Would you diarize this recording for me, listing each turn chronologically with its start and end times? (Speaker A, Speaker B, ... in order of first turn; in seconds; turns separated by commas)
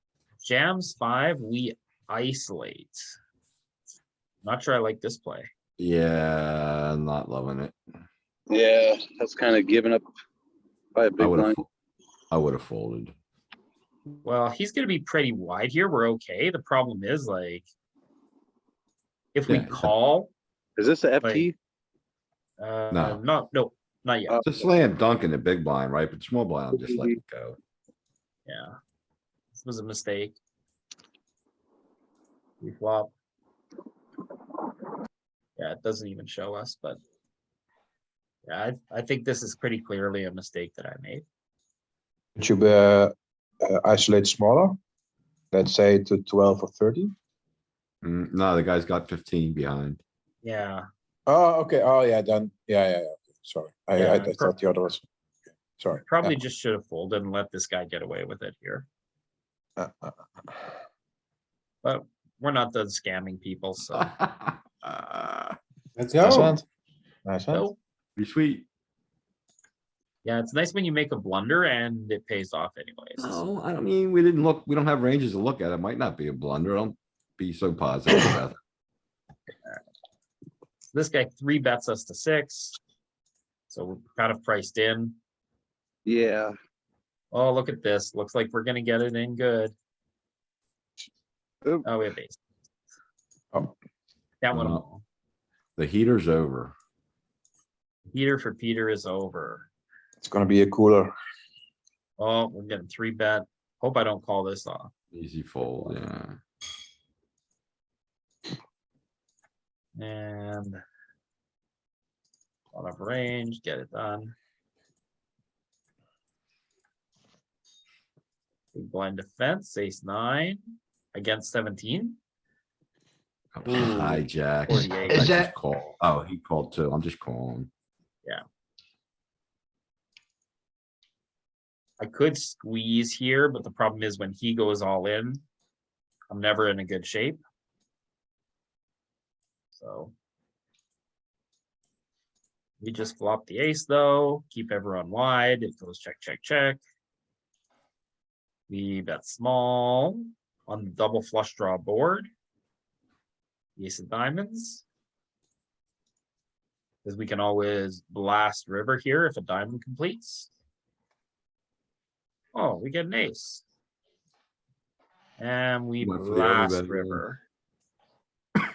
Speaker A: 0.4-3.1, Speaker A: 4.5-5.5, Speaker B: 5.8-7.8, Speaker C: 8.5-10.1, Speaker C: 10.9-11.6, Speaker B: 11.2-11.7, Speaker B: 12.3-13.1, Speaker A: 14.2-17.6, Speaker A: 19.4-20.3, Speaker B: 19.5-19.9, Speaker C: 20.8-21.6, Speaker A: 21.2-21.5, Speaker A: 22.6-24.4, Speaker B: 22.9-23.2, Speaker C: 24.3-24.6, Speaker B: 24.4-27.6, Speaker C: 26.8-27.2, Speaker A: 28.5-28.7, Speaker A: 29.5-30.4, Speaker A: 32.6-33.1, Speaker A: 35.6-37.0, Speaker A: 38.5-41.2, Speaker D: 42.4-44.8, Speaker D: 45.5-47.1, Speaker B: 48.0-50.0, Speaker A: 50.4-50.9, Speaker D: 51.3-55.0, Speaker A: 54.0-54.5, Speaker D: 55.8-56.4, Speaker A: 56.1-58.9, Speaker D: 59.8-60.2, Speaker A: 61.8-64.1, Speaker B: 63.9-65.6, Speaker D: 66.0-66.7, Speaker B: 66.2-66.5, Speaker D: 67.2-67.7, Speaker A: 67.5-67.8, Speaker B: 68.2-68.7, Speaker A: 70.2-73.4, Speaker B: 73.2-78.6, Speaker A: 80.9-82.8, Speaker A: 83.7-85.2, Speaker C: 86.1-86.5, Speaker A: 87.3-89.7, Speaker A: 91.8-92.4, Speaker A: 94.4-95.0, Speaker B: 94.5-94.8, Speaker B: 95.8-96.7, Speaker A: 98.1-99.7, Speaker D: 100.2-101.1, Speaker A: 102.2-104.9, Speaker B: 105.1-106.4, Speaker A: 110.0-110.8, Speaker A: 112.7-114.3, Speaker A: 118.7-120.6, Speaker A: 121.1-122.2, Speaker B: 123.5-127.7, Speaker C: 123.8-124.2, Speaker A: 124.7-125.5, Speaker A: 132.0-135.4, Speaker A: 136.3-137.4, Speaker A: 139.7-140.1, Speaker A: 142.8-146.8, Speaker A: 148.7-152.3, Speaker A: 153.8-154.8, Speaker A: 157.0-160.5, Speaker A: 162.5-163.6, Speaker A: 165.4-167.4, Speaker B: 166.0-167.2